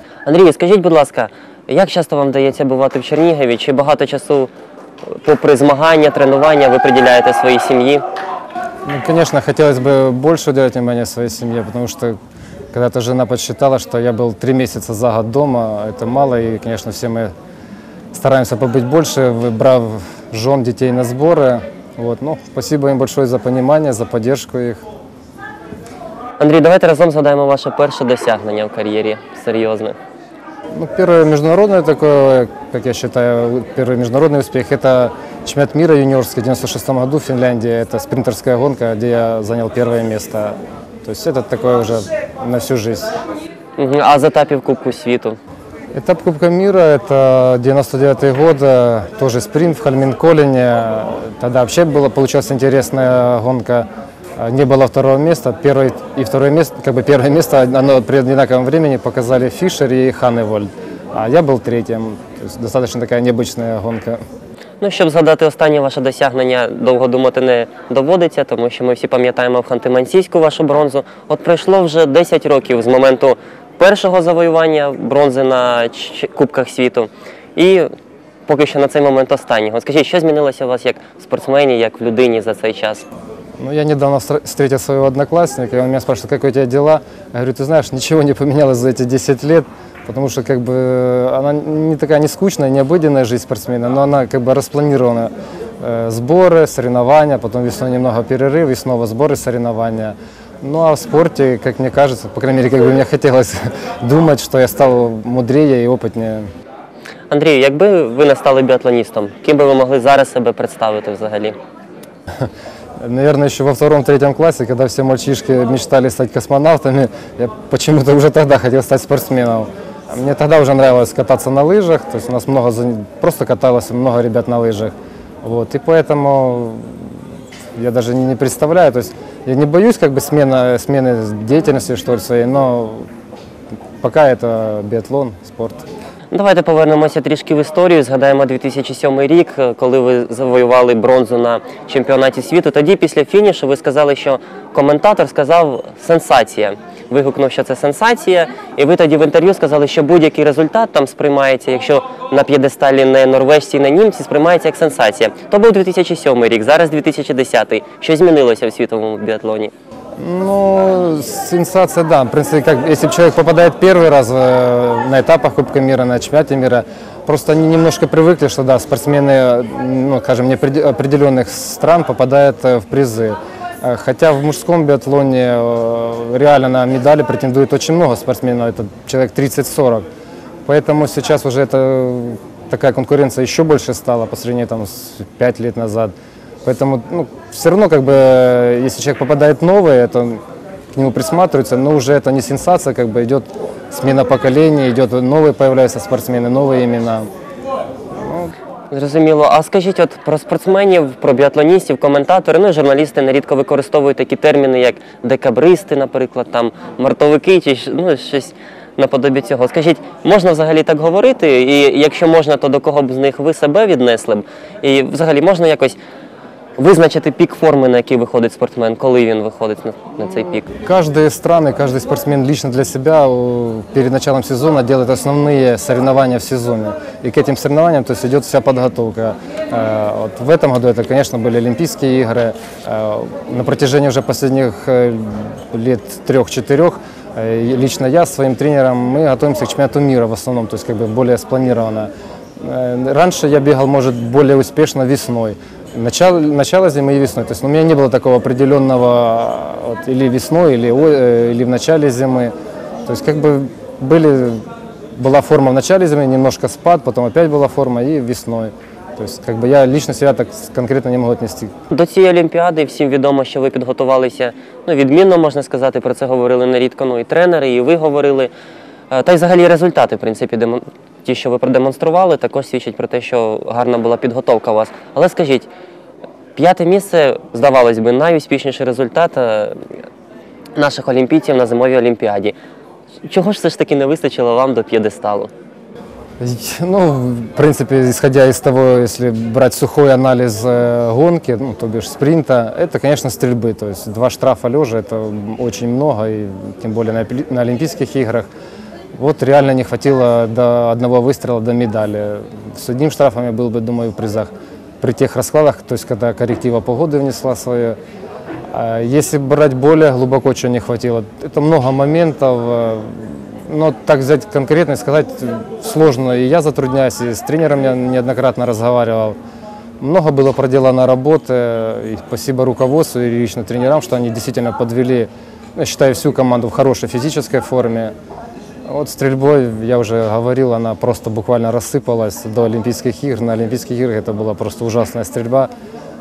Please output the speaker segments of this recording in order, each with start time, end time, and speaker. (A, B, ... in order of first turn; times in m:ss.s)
0:00.3-0:04.5 A
0:05.1-0:08.0 A
0:08.9-0:12.2 B
0:12.7-0:17.3 B
0:18.1-0:24.8 B
0:26.4-0:30.0 A
0:30.8-0:43.1 B
0:43.8-0:45.4 A
0:45.9-0:53.9 B
0:54.4-1:04.2 B
1:04.8-1:17.9 A
1:18.5-1:23.0 A
1:23.6-1:46.5 B
1:47.3-1:51.6 A
1:52.4-2:07.1 B
2:07.8-2:13.1 B
2:14.0-2:15.9 B
2:16.3-2:39.7 A
2:40.2-3:00.1 B
3:00.7-3:06.1 B
3:06.6-3:10.4 B
3:11.0-3:17.3 B
3:18.2-3:18.5 B
3:18.9-3:36.0 A
3:36.8-3:40.7 A
3:40.7-4:12.5 B
4:13.1-4:14.6 B
4:15.2-4:21.7 B
4:21.9-4:28.5 A
4:29.1-4:35.7 A
4:36.6-4:39.8 A
4:40.8-4:42.6 A
4:43.2-4:45.5 A
4:46.4-4:58.5 B
4:59.2-5:08.0 B
5:08.7-5:19.4 B
5:20.0-5:28.1 B
5:28.9-5:35.7 B